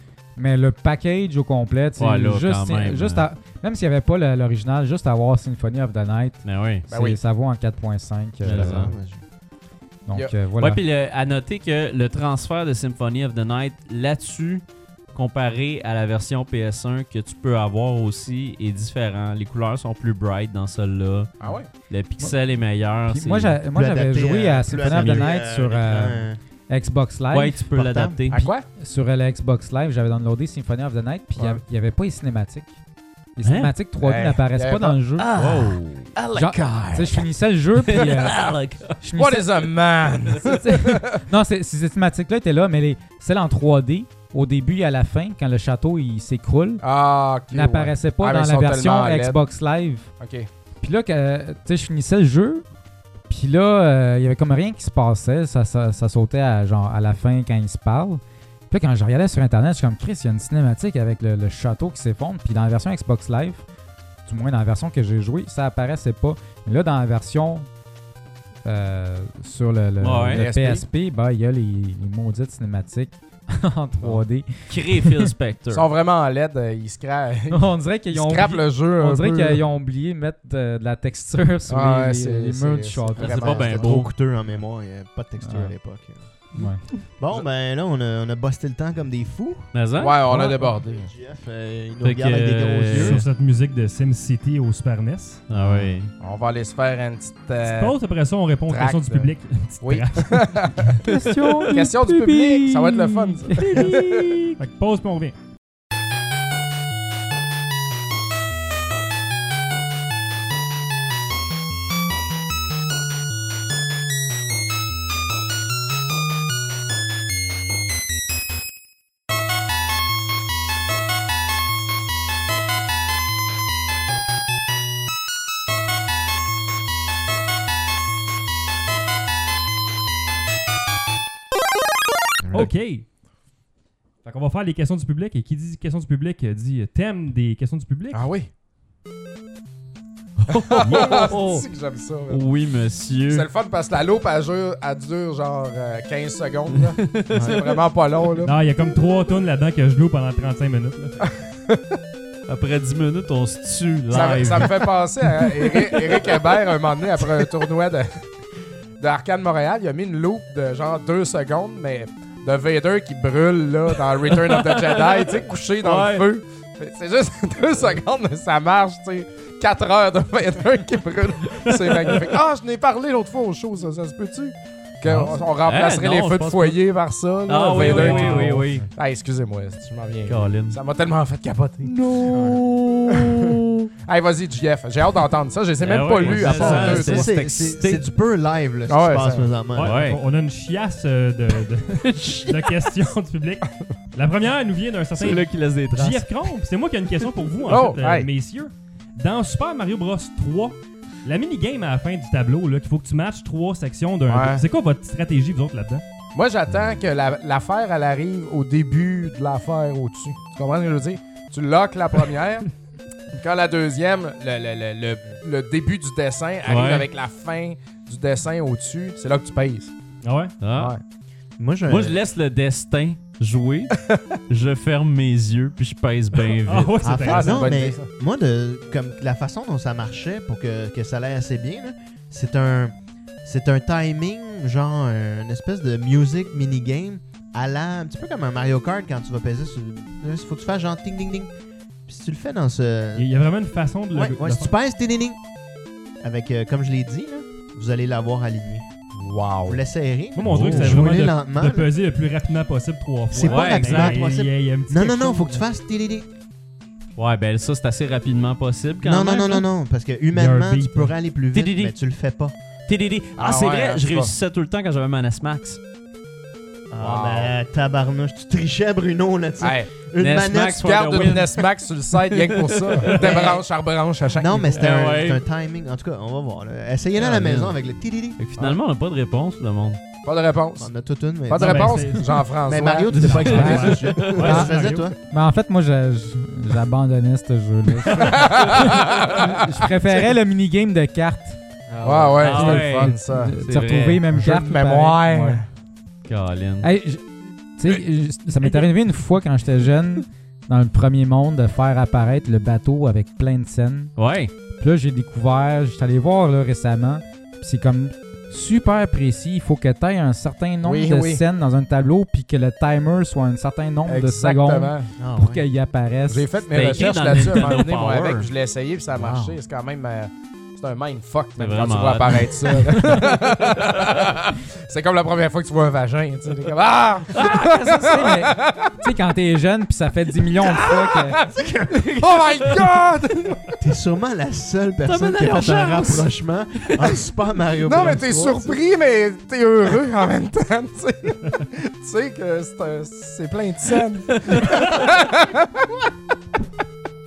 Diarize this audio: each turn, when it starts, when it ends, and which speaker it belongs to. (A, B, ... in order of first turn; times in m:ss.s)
0:00.4-0:08.9 A
0:02.0-0:03.2 B
0:06.4-0:06.8 B
0:06.9-0:07.2 C
0:08.4-0:09.2 D
0:08.4-0:08.9 B
0:10.0-0:10.8 A
0:10.6-0:23.6 B
0:21.4-0:21.7 C
0:23.0-0:27.6 A
0:23.7-0:26.4 D
0:24.8-0:25.3 B
0:27.3-0:28.5 B
0:27.7-0:28.2 D
0:28.3-0:28.6 C
0:28.7-0:32.7 A
0:33.3-0:35.3 A
0:33.4-0:33.7 B
0:34.0-0:35.4 C
0:35.3-0:35.8 D
0:35.4-0:36.1 B
0:36.2-0:37.2 C
0:36.3-0:39.6 A
0:37.8-0:38.9 B
0:39.2-0:41.0 C
0:40.4-0:46.8 A
0:46.8-0:49.4 C
0:47.5-0:50.1 A
0:50.2-0:50.5 C
0:50.8-0:52.6 A
0:53.3-1:03.6 A
1:04.2-1:07.7 A
1:08.6-1:15.3 A
1:10.0-1:10.4 B
1:10.3-1:10.8 C
1:14.7-1:15.9 B
1:15.7-1:19.6 C
1:17.5-1:23.4 A
1:21.7-1:24.0 C
1:23.2-1:26.5 D
1:23.2-1:24.1 B
1:25.4-1:25.7 A
1:26.5-1:26.8 A
1:27.2-1:29.7 D
1:29.7-1:30.2 B
1:30.0-1:31.1 C
1:30.3-1:30.6 A
1:30.3-1:33.2 D
1:32.0-1:33.2 B
1:32.9-1:35.4 E
1:35.5-1:36.1 B
1:35.5-1:36.0 A
1:36.2-1:38.0 C
1:37.6-1:41.0 E
1:38.7-1:40.9 C
1:41.0-1:44.6 A
1:41.7-1:44.2 C
1:43.6-1:45.3 E
2:12.4-2:12.7 D
2:12.5-2:13.1 E
2:14.2-2:18.2 E
2:18.1-2:18.5 C
2:20.5-2:23.5 B
2:20.5-2:22.4 C
2:20.8-2:21.4 E
2:23.3-2:28.6 C
2:26.9-2:27.5 B
2:27.3-2:27.6 D
2:28.4-2:31.2 E
2:31.4-2:31.8 C
2:32.5-2:36.3 B
2:34.1-2:38.2 C
2:39.0-3:01.9 C
2:44.5-2:46.3 B
2:55.0-2:56.8 B
2:57.5-2:58.8 B
2:57.7-2:58.8 E
3:00.3-3:00.8 B
3:02.0-3:03.2 D
3:04.0-3:07.3 C
3:05.8-3:08.1 B
3:06.2-3:10.0 D
3:08.9-3:09.5 C
3:09.7-3:26.0 E
3:09.8-3:10.2 B
3:12.0-3:12.6 B
3:15.1-3:16.5 B
3:17.6-3:18.3 C
3:24.3-3:24.6 C
3:26.3-3:32.7 C
3:33.3-3:39.9 C
3:36.6-3:37.1 B
3:40.2-3:40.6 E
3:40.6-3:41.0 B
3:40.7-3:41.0 C
3:41.6-3:42.2 D
3:41.8-3:47.1 B
3:46.6-3:47.8 E
3:47.0-4:01.5 D
3:47.2-3:48.1 C
4:02.0-4:03.3 D
4:03.2-4:04.7 E
4:04.1-4:05.4 D
4:06.2-4:08.9 D
4:09.2-4:09.8 C
4:09.6-4:11.9 D
4:10.3-4:15.6 E
4:10.4-4:11.0 C
4:10.6-4:10.9 B
4:13.3-4:16.2 D
4:13.4-4:14.2 B
4:17.2-4:19.6 B
4:19.0-4:22.5 D
4:20.3-4:21.1 E
4:21.5-4:22.0 B
4:22.8-4:25.8 B
4:23.4-4:24.3 C
4:26.9-4:31.0 D
4:27.0-4:27.5 C
4:29.6-4:29.9 C
4:30.2-4:31.7 B
4:30.8-4:34.8 C
4:32.3-4:33.6 B
4:34.3-4:38.4 D
4:34.7-4:35.4 B
4:37.2-4:37.6 C
4:38.4-4:40.0 B
4:40.2-4:40.9 C
4:40.8-4:45.2 D
4:41.5-4:44.2 C
4:41.5-4:42.5 E
4:43.1-4:44.5 B
4:43.1-4:45.1 E
4:43.5-4:51.6 A
4:48.2-4:49.5 C
4:51.9-4:52.4 D
4:52.0-4:53.6 C
4:52.2-4:54.2 B
4:52.4-4:55.6 A
4:54.3-4:55.7 C
4:56.2-4:56.9 B
4:56.8-5:04.2 A
5:04.2-5:04.5 B
5:04.8-5:16.5 A
5:10.8-5:11.4 C
5:14.0-5:15.1 C
5:15.2-5:15.6 D
5:16.3-5:28.9 C
5:16.7-5:18.5 B
5:19.1-5:19.6 D
5:21.6-5:23.3 B
5:27.4-5:31.4 A
5:30.6-5:33.8 C
5:31.5-5:32.3 D
5:33.8-5:38.8 D
5:35.0-5:37.1 B
5:37.8-5:46.0 C